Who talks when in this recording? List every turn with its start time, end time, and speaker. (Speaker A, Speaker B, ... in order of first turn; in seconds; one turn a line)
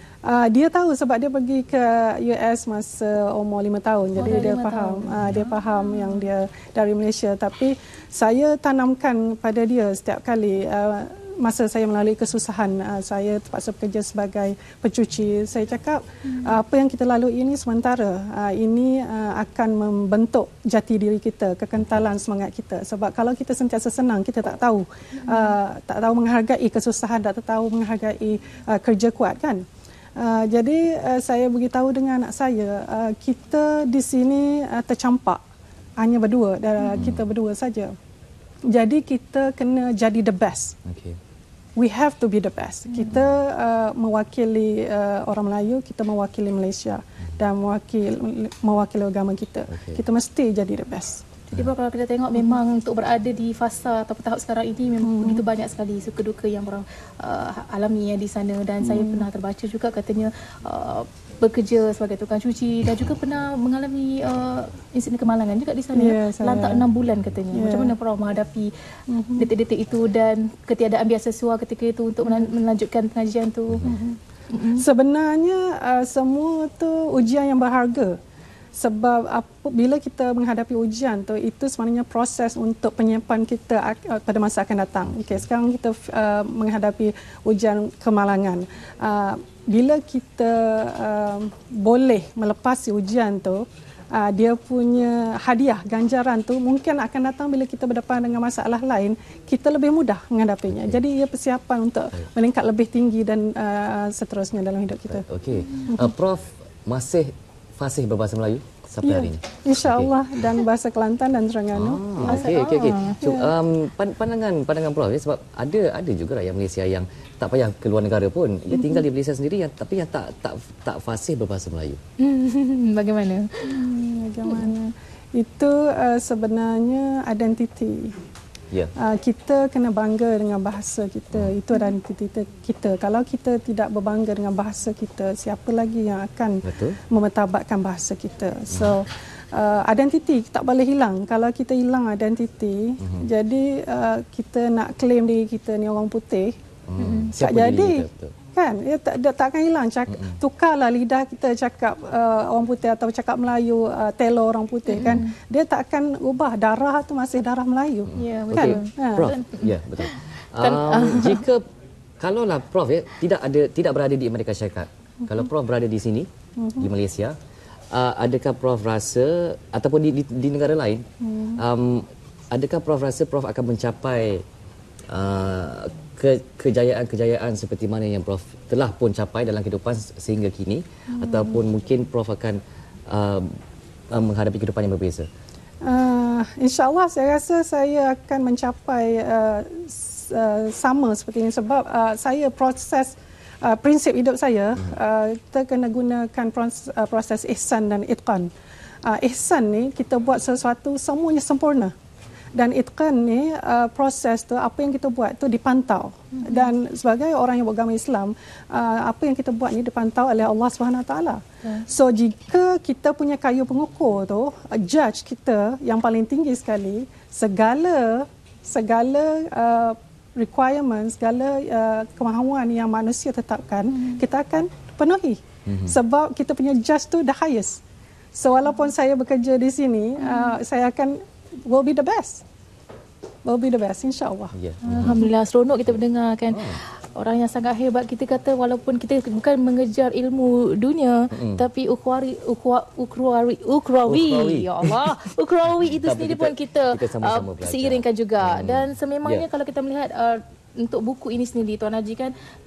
Speaker A: 0.2-29.6
Speaker B: 4.2-6.1
Speaker A: 30.2-35.4
Speaker A: 36.0-37.9
Speaker B: 36.8-37.1
Speaker C: 37.0-37.3
Speaker A: 38.7-40.7
Speaker C: 40.9-41.2
Speaker A: 41.8-51.2
Speaker C: 49.7-50.0
Speaker B: 51.5-68.7
Speaker A: 55.0-55.4
Speaker A: 58.8-59.3
Speaker A: 65.9-66.8
Speaker A: 67.5-67.9
Speaker A: 69.1-69.5
Speaker B: 69.4-73.9
Speaker A: 73.8-74.2
Speaker B: 74.5-74.8
Speaker A: 74.7-78.2
Speaker A: 78.8-105.2
Speaker C: 100.7-101.0
Speaker C: 105.1-110.1
Speaker A: 105.9-106.1
Speaker A: 109.0-112.5
Speaker C: 111.7-122.0
Speaker B: 112.2-113.2
Speaker A: 113.2-113.5
Speaker A: 118.7-119.0
Speaker B: 122.2-123.7
Speaker A: 123.6-128.1
Speaker A: 129.0-146.5
Speaker C: 136.6-137.0
Speaker C: 146.9-148.3
Speaker B: 147.0-147.3
Speaker A: 147.3-159.3
Speaker C: 150.1-150.4
Speaker B: 154.8-155.3
Speaker C: 158.1-161.6
Speaker B: 158.1-161.4
Speaker C: 162.2-167.4
Speaker A: 166.6-166.9
Speaker C: 167.9-174.4
Speaker A: 171.2-171.6
Speaker C: 175.1-183.5
Speaker A: 181.1-181.6
Speaker C: 184.1-185.3
Speaker A: 185.8-198.5
Speaker A: 199.0-201.9
Speaker A: 202.5-227.8
Speaker B: 206.4-206.7
Speaker C: 225.7-226.0
Speaker A: 228.3-232.4
Speaker B: 230.2-230.6
Speaker A: 233.4-235.1
Speaker C: 234.5-235.2
Speaker B: 234.8-252.3
Speaker C: 236.5-236.8
Speaker C: 241.3-241.6
Speaker C: 244.1-249.4